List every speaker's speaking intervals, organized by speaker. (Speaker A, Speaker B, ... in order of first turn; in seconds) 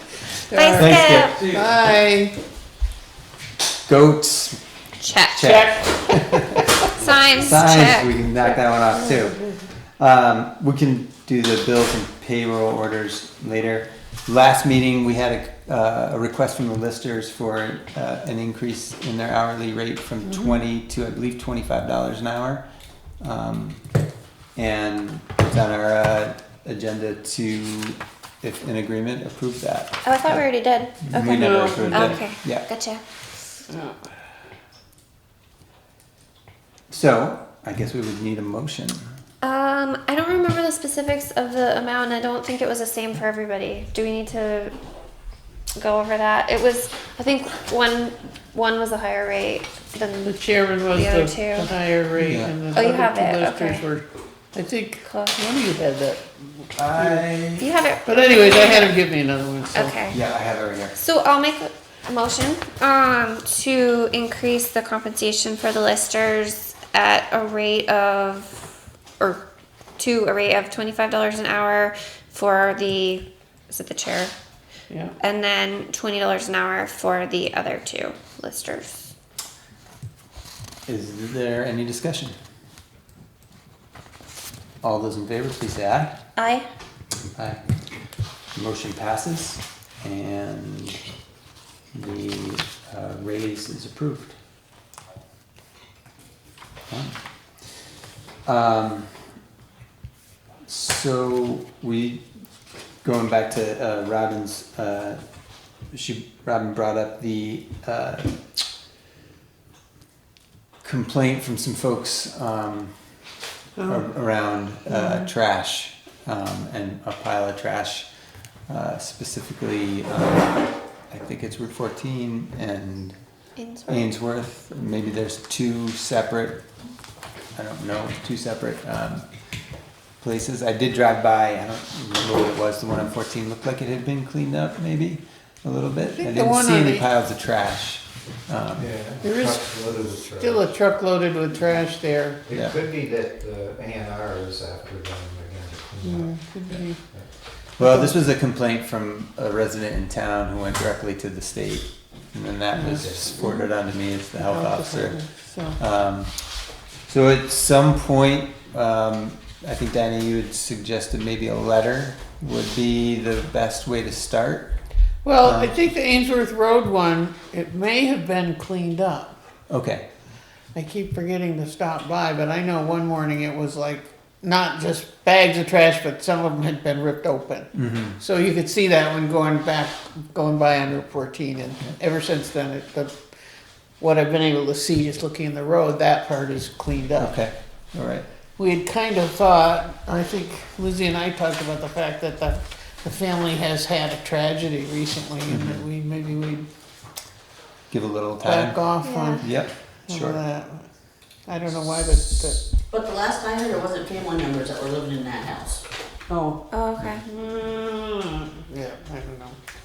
Speaker A: 0.3-2.4, 5.4-6.6, 20.2-20.6, 31.1-32.2, 33.7-34.0, 50.2-57.2, 58.0-60.0, 74.9-75.1, 114.9-115.2, 136.0-137.1, 139.2-139.7, 140.2-142.4, 146.0-147.0, 147.8-148.1, 152.7-153.6, 154.3-155.8, 165.2-169.4, 170.8-183.2, 184.0-187.3, 188.6-196.7, 198.4-199.5, 200.1-200.9, 201.5-202.7, 206.3-206.6, 207.3-209.6
Speaker B: 0.5-1.5, 5.0-5.5, 7.0-8.1, 30.0-33.0, 39.4-44.8, 45.8-51.7, 52.7-53.8, 55.0-55.4, 57.6-59.0, 59.7-60.2, 60.9-69.4, 70.0-74.3, 75.2-79.1, 86.3-86.7, 123.6-124.1, 199.0-199.4, 206.7-207.3
Speaker C: 0.7-1.8, 3.9-4.6, 5.3-6.5, 7.0-9.5, 10.0-22.7, 23.2-23.8, 24.6-30.4, 31.0-32.7, 36.9-39.0, 52.2-52.5, 56.8-57.7, 60.1-61.0, 80.9-82.3, 84.8-86.2, 87.3-87.6, 88.5-91.0, 91.9-94.3, 96.9-97.2, 98.5-99.3, 100.7-102.2, 103.0-105.2, 105.9-108.4, 110.8-113.3, 113.8-118.1, 118.7-123.2, 123.9-126.6, 127.5-129.3, 130.2-138.9, 147.8-155.2, 155.8-156.4, 157.1-164.8, 165.4-165.8, 169.7-170.1, 177.7-178.2, 187.2-188.3, 195.5-195.8, 197.9-198.8, 199.4-200.4
Speaker D: 138.8-140.7, 142.5-147.3
Speaker E: 202.9-205.8